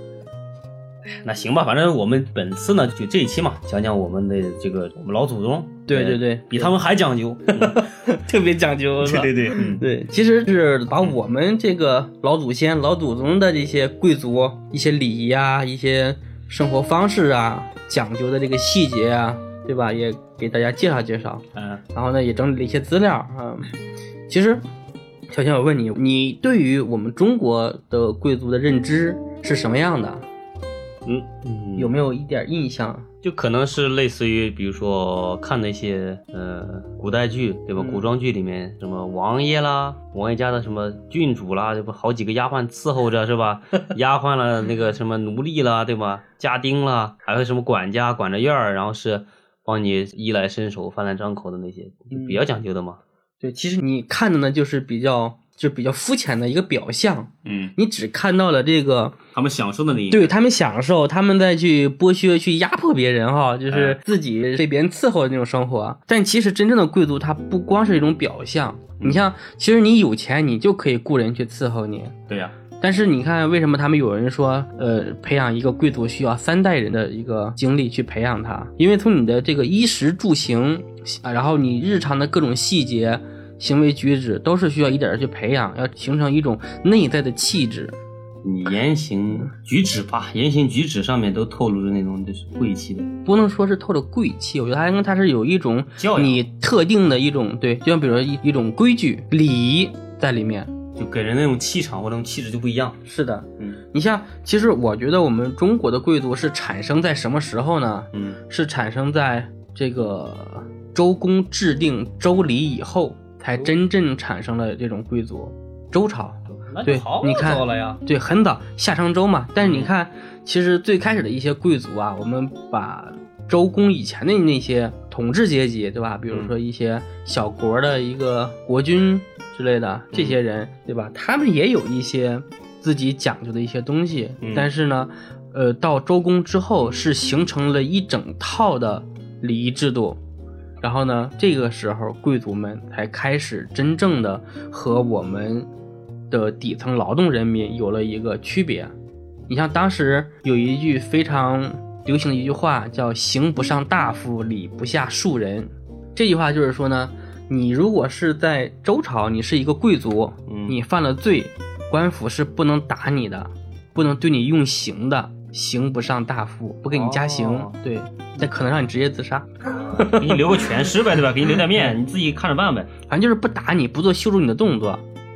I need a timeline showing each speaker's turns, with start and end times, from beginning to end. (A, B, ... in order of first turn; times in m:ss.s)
0:01.1-0:07.8 A
0:05.9-0:06.7 B
0:07.6-0:23.7 B
0:09.0-0:09.8 A
0:21.5-0:21.8 A
0:24.3-0:24.6 B
0:25.3-0:30.2 B
0:31.0-0:31.9 A
0:31.8-0:33.1 B
0:33.2-0:53.0 A
0:37.8-0:38.0 B
0:52.1-0:52.4 B
0:53.4-0:59.2 B
0:57.4-0:57.7 A
0:59.3-1:00.3 A
1:00.1-1:12.2 B
1:03.7-1:04.0 A
1:12.3-1:12.5 A
1:12.8-1:28.0 B
1:28.4-1:33.1 A
1:33.2-1:40.7 B
1:36.0-1:36.4 A
1:41.0-1:43.0 A
1:43.0-2:20.2 B
1:48.1-1:48.4 A
1:56.5-1:58.0 A
1:59.6-1:59.9 A
2:10.1-2:10.4 A
2:14.4-2:14.7 A
2:20.8-2:25.7 B
2:26.3-2:28.9 B
2:29.5-2:50.7 B
2:40.5-2:40.8 A
2:46.9-2:47.8 A
2:49.9-2:52.9 A
2:53.1-2:55.0 B